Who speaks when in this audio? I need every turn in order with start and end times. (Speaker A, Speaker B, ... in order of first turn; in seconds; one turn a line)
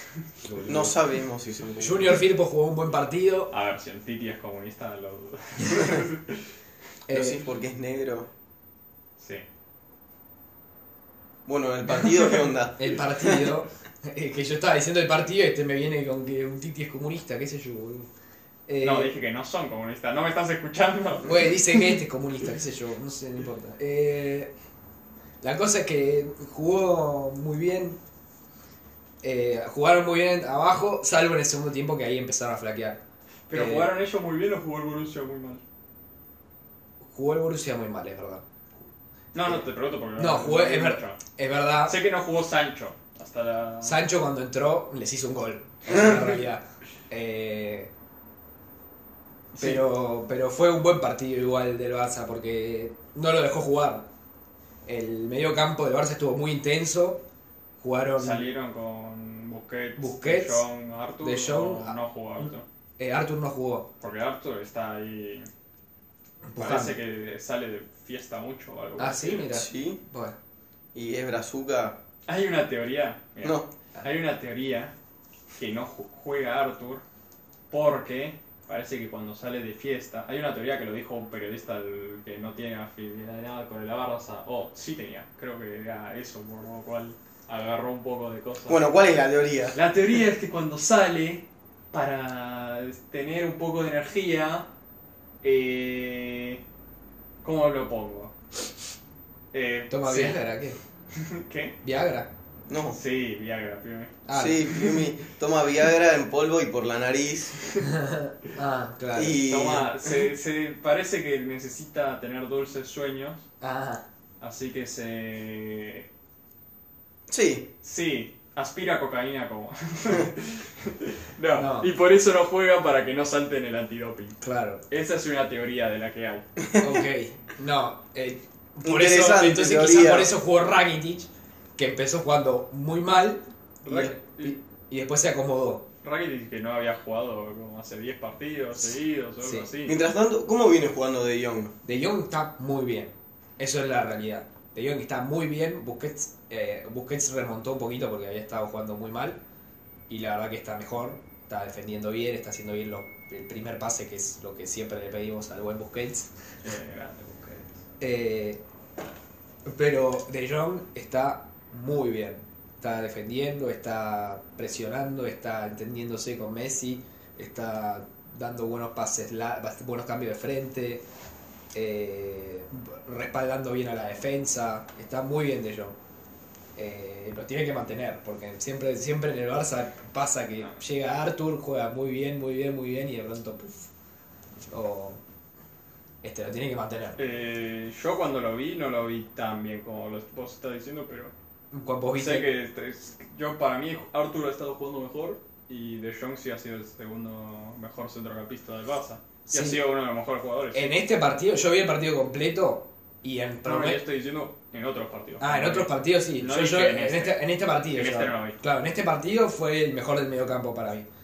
Speaker A: 0.4-1.0
Speaker B: 0.7-2.2
Speaker A: 1.8-3.5
Speaker C: 3.5-6.4
Speaker A: 7.1-7.5
Speaker B: 7.1-8.3
Speaker C: 9.2-9.4
Speaker B: 11.5-13.4
Speaker A: 12.8-18.1
Speaker A: 18.7-19.1
Speaker C: 18.8-21.4
Speaker A: 21.2-24.5
Speaker A: 25.4-28.0
Speaker A: 29.2-33.0
Speaker C: 33.5-35.6
Speaker A: 33.5-33.9
Speaker A: 37.0-38.5
Speaker C: 39.3-41.2
Speaker A: 40.2-42.0
Speaker C: 41.9-44.0
Speaker A: 43.8-47.9
Speaker C: 49.5-49.8
Speaker A: 49.6-54.1
Speaker A: 54.9-57.2
Speaker A: 57.8-58.5
Speaker C: 58.2-62.7
Speaker A: 60.0-60.7
Speaker A: 61.2-63.9
Speaker C: 64.0-65.5
Speaker A: 66.5-67.0
Speaker C: 66.6-69.5
Speaker A: 69.0-70.4
Speaker B: 69.5-70.0
Speaker B: 71.0-72.0
Speaker C: 72.3-74.9
Speaker B: 73.4-73.7
Speaker C: 75.6-77.0
Speaker C: 77.7-88.8
Speaker B: 88.7-89.8
Speaker C: 89.7-94.7
Speaker C: 95.4-96.6
Speaker C: 97.4-98.3
Speaker C: 99.5-100.4
Speaker A: 99.9-100.8
Speaker C: 101.1-101.8
Speaker A: 101.8-102.3
Speaker B: 102.7-103.0
Speaker C: 102.9-104.2
Speaker A: 104.3-104.8
Speaker B: 104.3-107.7
Speaker A: 107.8-109.4
Speaker B: 109.2-110.2
Speaker C: 109.4-113.5
Speaker A: 113.6-114.1
Speaker C: 114.4-116.1
Speaker B: 117.3-117.7
Speaker C: 117.8-126.5
Speaker A: 121.5-121.9
Speaker A: 124.4-124.8
Speaker B: 126.6-127.0
Speaker A: 126.8-135.9
Speaker B: 128.8-130.3
Speaker C: 133.8-134.6
Speaker C: 136.0-140.0
Speaker A: 139.4-139.7
Speaker B: 139.9-141.8
Speaker A: 141.8-149.4
Speaker A: 150.1-156.3
Speaker C: 156.6-157.8
Speaker A: 158.0-158.6
Speaker A: 159.7-171.1
Speaker A: 171.7-176.0
Speaker A: 176.8-183.9
Speaker A: 184.7-185.2
Speaker A: 186.2-187.2
Speaker C: 187.2-191.3
Speaker A: 191.7-192.5
Speaker C: 192.2-201.0
Speaker A: 199.5-199.8
Speaker A: 200.7-204.0
Speaker C: 203.7-207.4
Speaker A: 205.4-211.1
Speaker C: 207.9-208.6